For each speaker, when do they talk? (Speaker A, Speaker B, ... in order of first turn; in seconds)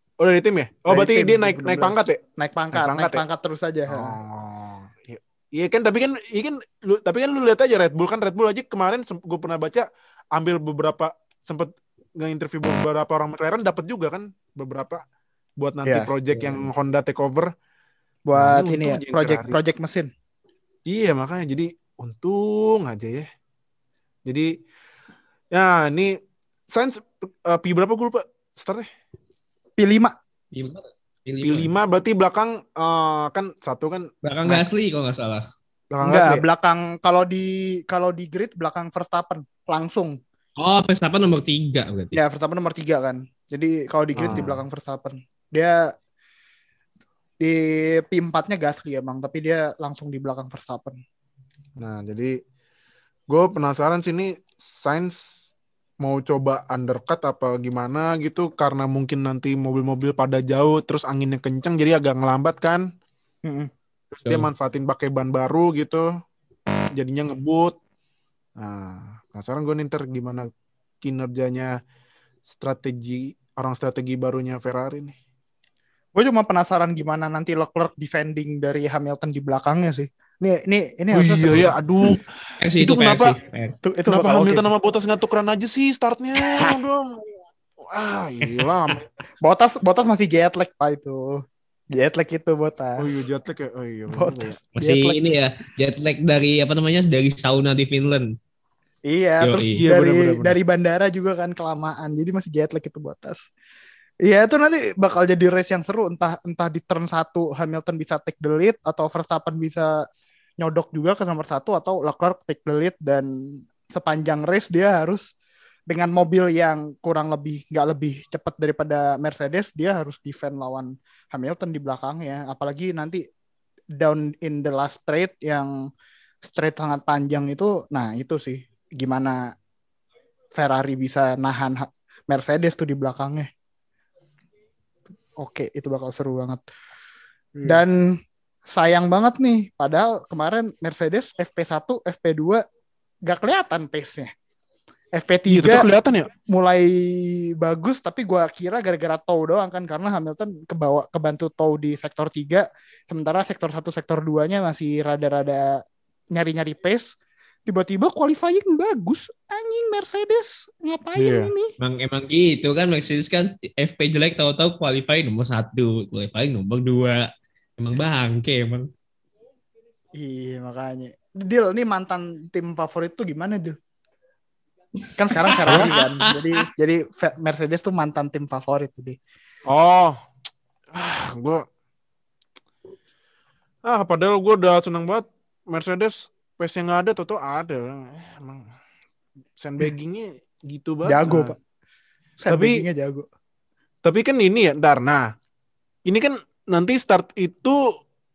Speaker A: 0.2-2.2, 2.7-3.2, 3.9-15.0, 15.6-17.5, 18.3-19.6, 20.9-23.3, 24.2-24.5, 25.5-26.1, 26.7-28.9, 31.4-34.1, 35.9-36.4, 44.1-44.5, 51.8-52.4, 53.3-55.5, 56.0-62.8, 64.1-66.1, 66.9-67.8, 68.6-71.8, 72.5-75.2, 81.1-83.4, 84.1-89.1, 93.0-94.5, 99.7-100.6, 137.5-137.8, 145.5-146.3, 161.2-161.5, 179.7-180.2, 180.9-181.6, 183.8-188.7, 189.6-191.5, 192.5-192.8, 194.0-195.3, 196.1-197.8
Speaker B: 0.9-4.2, 15.8-16.1, 18.3-20.1, 29.8-30.1, 36.0-40.2, 42.1-45.8, 47.4-51.0, 63.4-63.7, 76.1-81.8, 83.8-84.7, 89.4-91.4, 91.9-93.2, 94.1-95.2, 99.1-103.4, 104.2-109.9, 110.6-113.3, 113.9-115.3, 115.9-123.2, 124.0-125.7, 126.4-129.4, 130.5-133.5, 135.4-136.6, 137.6-138.1, 138.7-142.6, 143.3-144.3, 145.1-145.9, 146.5-155.8, 156.3-157.1, 157.7-161.7, 170.2-173.8, 175.1-179.2, 191.0-191.5, 192.4-193.3
Speaker C: 30.5-31.7, 34.2-35.4, 40.6-42.2, 82.6-83.7, 94.7-98.3, 99.4-99.8, 161.8-168.9, 175.3-176.1